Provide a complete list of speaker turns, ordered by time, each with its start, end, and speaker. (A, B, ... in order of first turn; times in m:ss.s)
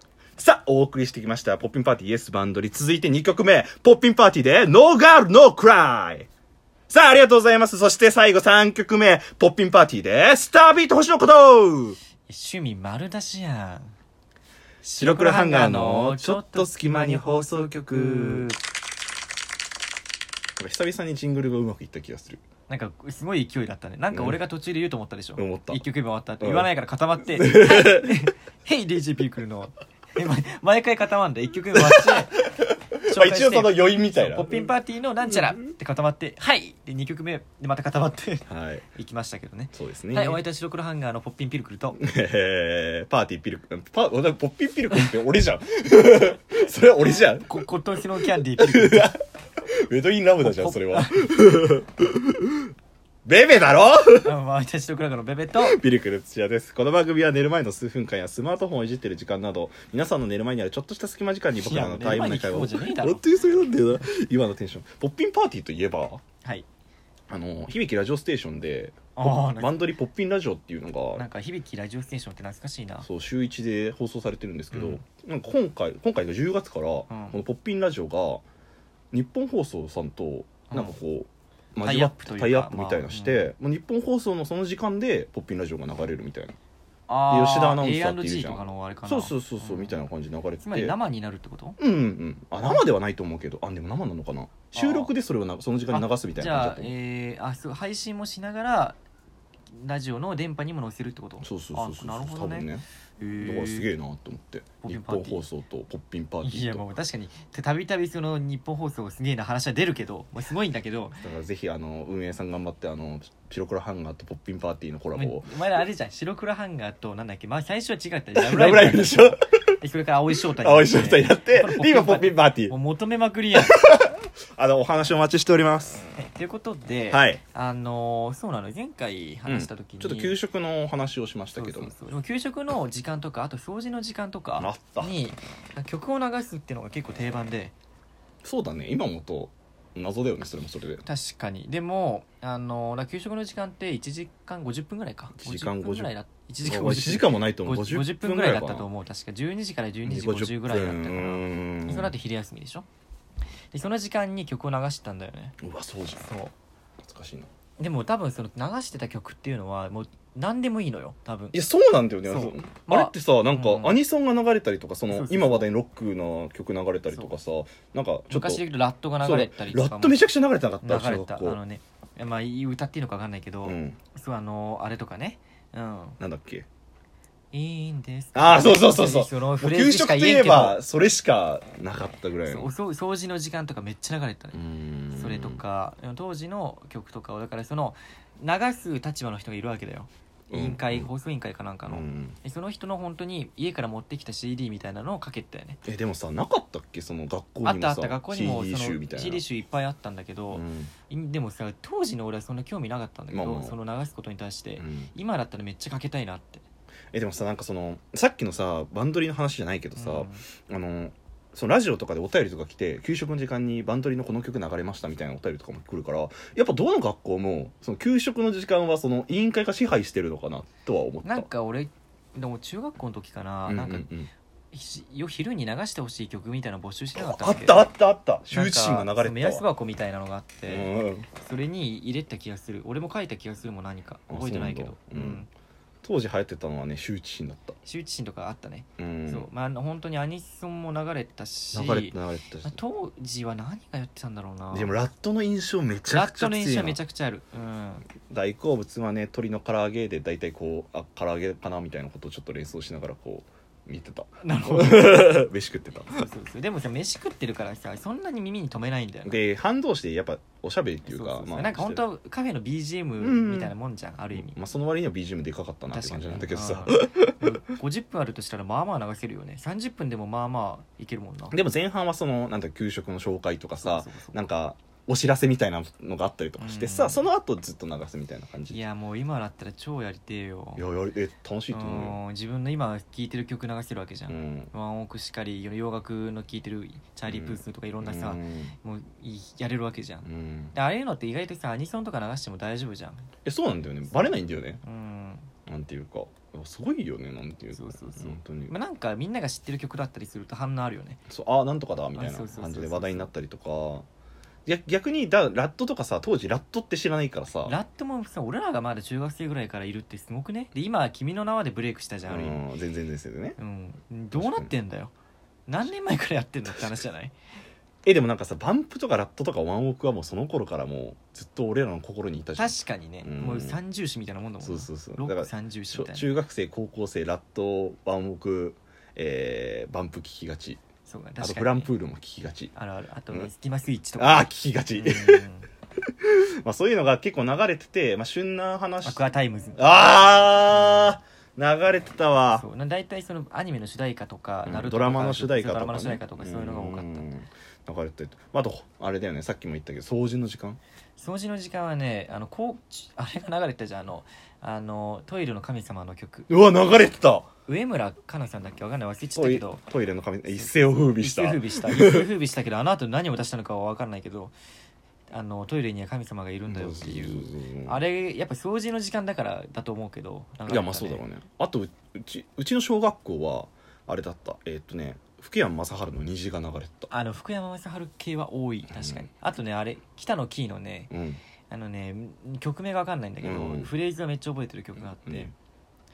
0:00.4-0:06.3 A
0:06.9-0:12.0 A
0:12.3-0:13.9 B
0:14.8-0:18.6 B
0:15.0-0:18.5 A
0:20.6-0:22.4 A
0:22.7-0:32.3 B
0:24.1-0:24.4 A
0:25.4-0:25.8 A
0:26.4-0:26.7 A
0:27.3-0:28.3 A
0:31.8-0:34.6 A
0:33.0-0:42.0 B
0:38.5-0:38.8 A
0:39.7-0:40.4 A
0:42.0-0:47.6 A
0:47.1-0:49.1 B
0:48.2-0:52.7 A
0:50.4-0:51.3 B
0:53.2-0:54.3 A
0:54.2-0:55.8 B
0:55.6-1:06.2 A
1:01.6-1:03.2 B
1:07.3-1:11.2 A
1:09.2-1:09.9 B
1:11.1-1:13.1 B
1:13.0-1:18.4 A
1:14.7-1:15.0 B
1:17.1-1:17.4 B
1:19.1-1:26.6 A
1:20.7-1:21.0 B
1:21.8-1:23.5 B
1:27.1-1:30.0 B
1:27.3-1:31.0 A
1:30.6-1:31.8 B
1:31.8-1:36.9 A
1:34.7-1:35.1 B
1:35.9-1:39.0 B
1:39.7-1:43.9 B
1:41.4-1:42.8 A
1:43.4-1:46.8 A
1:44.8-1:45.4 B
1:46.4-1:51.2 B
1:51.2-1:55.6 A
1:55.2-2:03.8 B
1:58.4-1:59.7 A
2:00.3-2:02.7 A
2:03.5-2:06.0 A
2:06.1-2:10.4 B
2:07.1-2:07.4 A
2:09.4-2:11.9 A
2:11.5-2:17.7 B
2:14.6-2:15.1 A
2:18.4-2:21.0 A
2:21.0-2:32.9 B
2:25.3-2:26.1 A
2:26.6-2:28.9 A
2:30.0-2:32.1 A
2:33.7-2:35.6 B
2:35.6-2:36.2 A
2:36.2-2:36.5 B
2:37.0-2:37.5 A
2:37.8-2:41.5 B
2:41.5-2:48.6 A
2:42.3-2:44.0 B
2:45.1-2:45.7 B
2:48.3-2:50.2 B
2:49.2-2:51.6 A
2:50.8-2:56.2 B
2:53.6-2:54.0 A
2:56.2-2:56.6 A
2:57.5-3:00.8 B
2:58.3-3:02.7 A
3:02.4-3:04.6 B
3:04.5-3:05.6 A
3:05.1-3:15.8 B
3:10.5-3:11.1 A
3:11.9-3:12.4 A
3:15.8-3:19.4 A
3:17.6-3:26.6 B
3:20.5-3:20.9 A
3:23.3-3:23.8 A
3:24.8-3:25.1 A
3:27.1-3:41.5 A
3:30.0-3:30.4 B
3:41.2-3:44.1 B
3:43.6-3:44.3 A
3:44.7-3:47.9 B
3:47.2-3:49.6 A
3:48.5-3:55.5 B
3:50.7-3:51.3 A
3:54.3-3:55.4 A
3:56.0-3:57.8 A
3:57.8-4:04.9 B
3:59.0-3:59.5 A
4:01.7-4:02.8 A
4:04.7-4:07.0 A
4:06.1-4:08.0 B
4:08.2-4:16.3 A
4:14.4-4:15.3 B
4:16.1-4:19.4 B
4:19.2-4:22.0 A
4:21.0-4:24.6 B
4:23.2-4:23.7 A
4:24.3-4:27.6 A
4:25.9-4:31.5 B
4:31.5-4:38.8 A
4:33.8-4:34.4 B
4:36.6-4:37.2 B
4:38.7-4:40.8 B
4:40.8-4:42.2 A
4:41.7-4:53.3 B
4:44.3-4:44.7 A
4:47.3-4:48.8 A
4:50.2-4:50.8 A
4:53.4-4:54.8 A
4:54.1-4:55.5 B
4:55.6-4:58.7 A
4:57.7-5:01.2 B
5:01.3-5:04.0 A
5:02.1-5:03.3 B
5:04.6-5:07.7 A
5:07.6-5:12.6 B
5:12.3-5:13.6 A
5:13.6-5:15.1 B
5:14.3-5:14.7 A
5:15.7-5:17.3 B
5:18.0-5:23.8 A
5:22.6-5:26.2 B
5:24.6-5:30.8 A
5:31.0-5:31.9 B
5:31.4-5:32.7 A
5:32.7-5:35.7 B
5:34.2-5:35.4 A
5:36.2-5:39.2 A
5:39.0-5:39.9 B
5:39.8-5:42.6 A
5:42.5-5:47.3 B
5:44.6-5:50.8 A
5:51.2-5:56.5 B
5:56.5-5:57.5 A
5:57.7-5:59.8 B
5:59.3-6:02.3 A
6:00.5-6:04.5 B
6:05.3-6:11.2 B
6:06.7-6:08.0 A
6:10.7-6:17.1 A
6:17.1-6:21.1 B
6:18.9-6:19.3 A
6:21.1-6:21.4 A
6:21.7-6:25.5 B
6:23.4-6:23.9 A
6:25.2-6:25.5 A